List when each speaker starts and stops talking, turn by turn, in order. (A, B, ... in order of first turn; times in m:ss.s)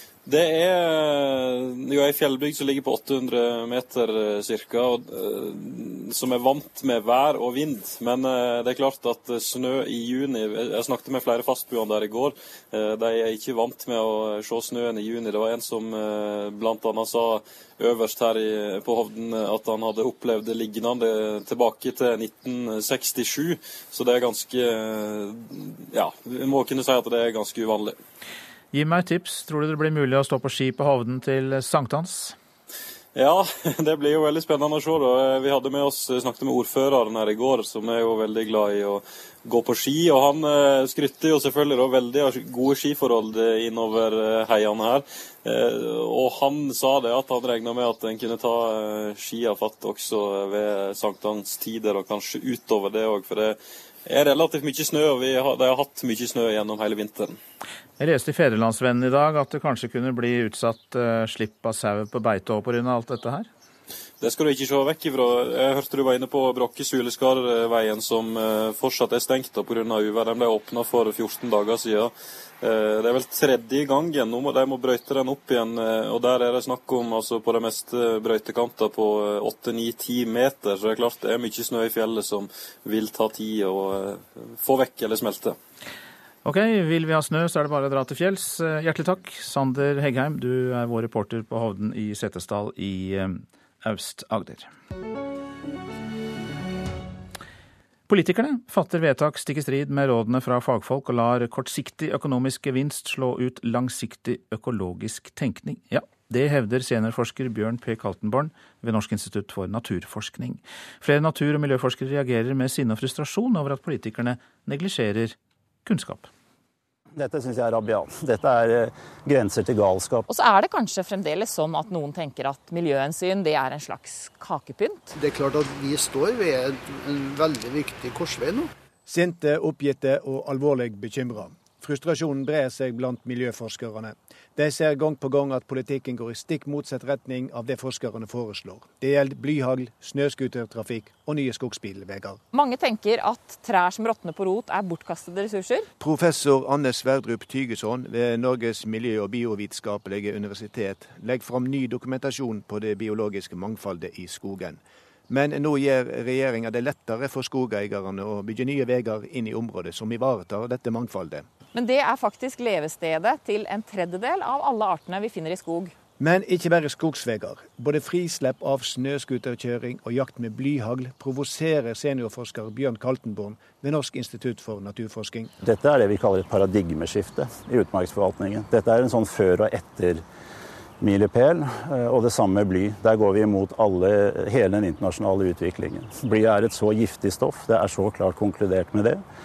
0:00.3-0:28.0 A
0:28.7-0:32.4 B
0:33.1-0:57.4 A
0:58.0-1:03.5 B
1:04.2-1:25.6 A
1:26.4-1:34.7 B
1:38.1-1:56.3 B
1:57.2-2:00.3 C
2:00.3-2:05.1 D
2:05.2-2:08.7 E
2:09.1-2:22.4 F
2:22.5-2:25.9 D
2:26.0-2:41.4 F
2:41.7-2:45.9 D
2:46.2-2:55.5 F
2:55.6-3:00.2 C
3:01.0-3:09.2 C